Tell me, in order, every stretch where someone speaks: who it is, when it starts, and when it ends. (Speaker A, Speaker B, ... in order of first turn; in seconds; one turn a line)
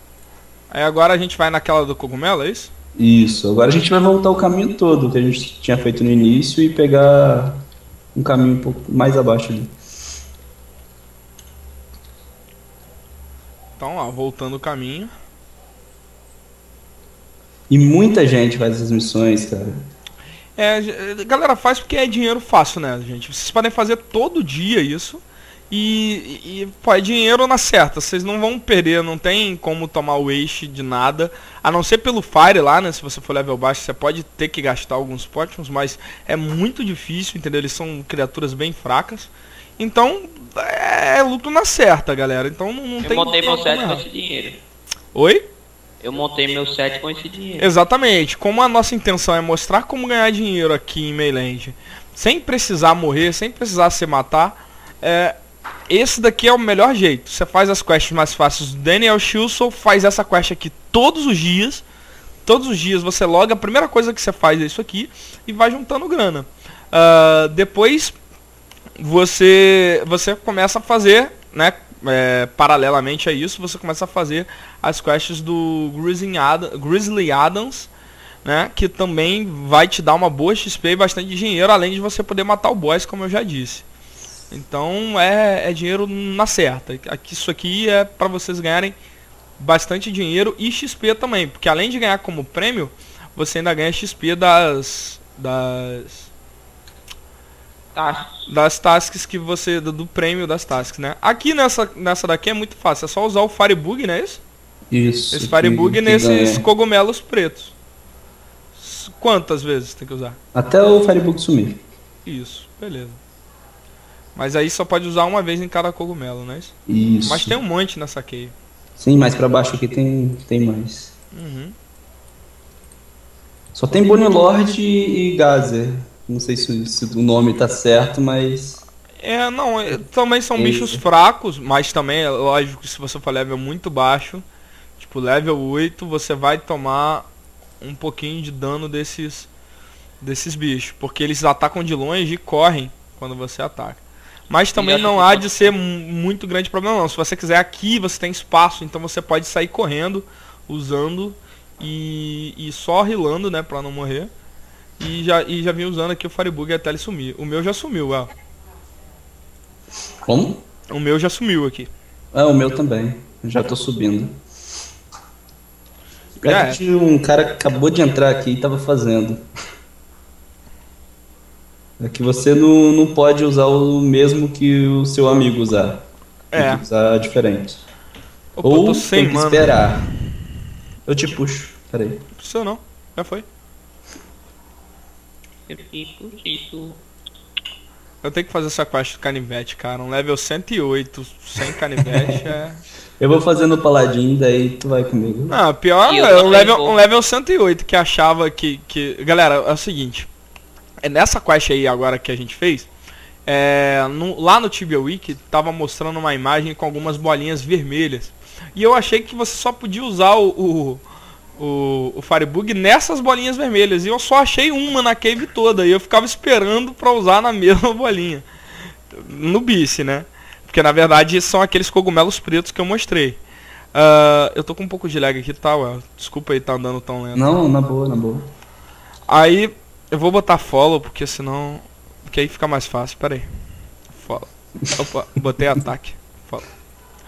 Speaker A: 0.7-2.7
Speaker B: 3.0-9.7
Speaker A: 13.8-15.1
Speaker B: 17.7-19.9
Speaker A: 20.6-44.0
Speaker C: 43.0-44.6
Speaker A: 45.1-45.5
Speaker C: 46.0-47.7
Speaker A: 47.6-55.4
Speaker A: 55.9-61.8
Speaker A: 62.5-68.2
Speaker A: 69.0-77.9
Speaker A: 78.4-83.8
Speaker A: 84.5-88.9
Speaker A: 89.6-96.3
Speaker C: 97.9-98.4
Speaker A: 98.5-104.4
Speaker B: 104.9-106.6
Speaker A: 105.3-107.7
Speaker A: 108.7-110.4
Speaker B: 110.5-111.8
Speaker A: 112.2-113.2
Speaker A: 114.3-116.7
Speaker B: 116.9-117.5
Speaker A: 117.2-118.5
Speaker B: 119.0-121.1
Speaker A: 121.3-121.7
Speaker B: 123.7-128.8
Speaker A: 129.2-134.4
Speaker B: 130.6-131.0
Speaker A: 135.0-137.2
Speaker A: 137.8-139.5
Speaker A: 140.2-154.3
Speaker C: 144.8-145.7
Speaker A: 155.0-158.3
Speaker B: 160.2-160.6
Speaker A: 160.9-161.9
Speaker B: 162.3-164.4
Speaker B: 166.4-169.4
Speaker A: 166.4-166.8
Speaker B: 172.0-177.8
Speaker A: 176.5-176.8
Speaker A: 178.6-179.8
Speaker B: 178.6-180.1
Speaker B: 181.1-182.2
Speaker A: 182.4-183.4
Speaker C: 185.7-187.0
Speaker A: 188.2-192.8
Speaker B: 192.1-192.4
Speaker B: 193.2-195.6
Speaker A: 195.5-200.3
Speaker C: 196.1-197.0
Speaker A: 201.0-202.9
Speaker A: 203.4-211.0
Speaker A: 211.6-218.4
Speaker A: 219.1-223.4
Speaker A: 223.9-227.5
Speaker B: 227.3-228.5
Speaker A: 229.3-233.4
Speaker A: 234.1-236.7